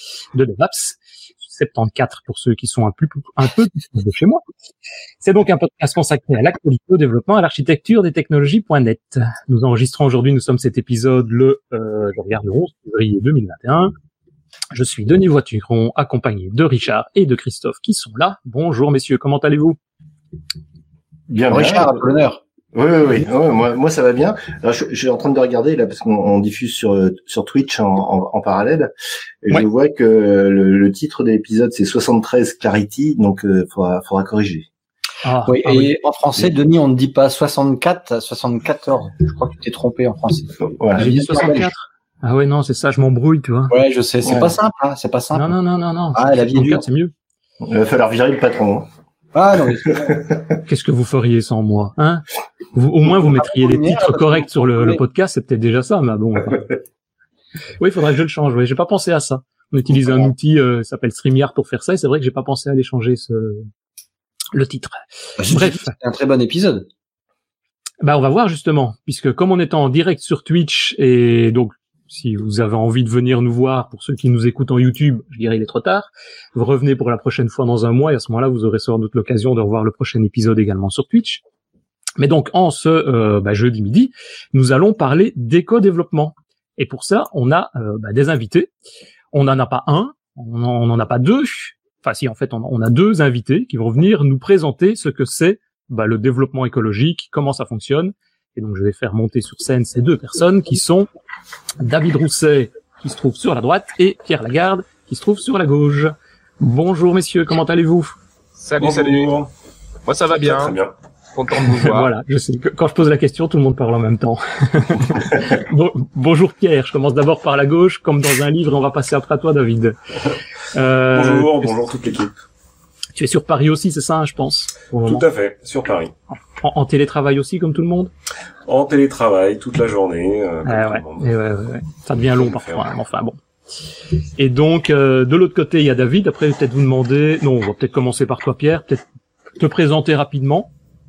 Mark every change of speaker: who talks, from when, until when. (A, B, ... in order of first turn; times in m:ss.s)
0:00.3-0:04.4 A
0:05.2-0:13.9 A
0:14.7-0:19.8 A
0:21.3-0:21.9 B
0:21.5-0:22.4 C
0:22.7-0:28.9 B
0:29.4-0:34.7 B
0:35.2-0:35.9 A
0:35.5-0:41.7 C
0:40.7-0:41.1 B
0:41.0-0:43.7 A
0:43.7-0:45.6 C
0:44.2-0:44.5 B
0:45.3-0:47.1 A
0:46.1-0:46.8 C
0:47.6-0:48.9 B
0:49.3-0:50.2 C
0:50.0-0:50.5 B
0:50.7-0:56.6 A
0:53.0-0:55.0 C
0:57.8-1:03.7 A
1:04.5-1:05.0 A
1:05.4-1:06.9 C
1:05.5-1:05.9 A
1:08.0-1:21.4 A
1:22.2-1:28.7 A
1:29.3-1:41.1 A
1:41.8-1:48.2 A
1:48.6-1:49.3 D
1:48.8-1:49.5 E
1:50.0-1:50.8 D
1:50.4-1:50.9 E
1:51.3-1:52.1 D
1:51.8-2:00.0 A
2:00.7-2:01.8 A
2:01.1-2:02.4 E
2:03.2-2:05.2 A
2:05.0-2:06.1 E
2:06.3-2:08.1 A
2:08.7-2:11.3 E
2:10.6-2:13.4 A
2:12.4-2:12.9 E
2:14.4-2:19.0 A
2:19.6-2:20.7 A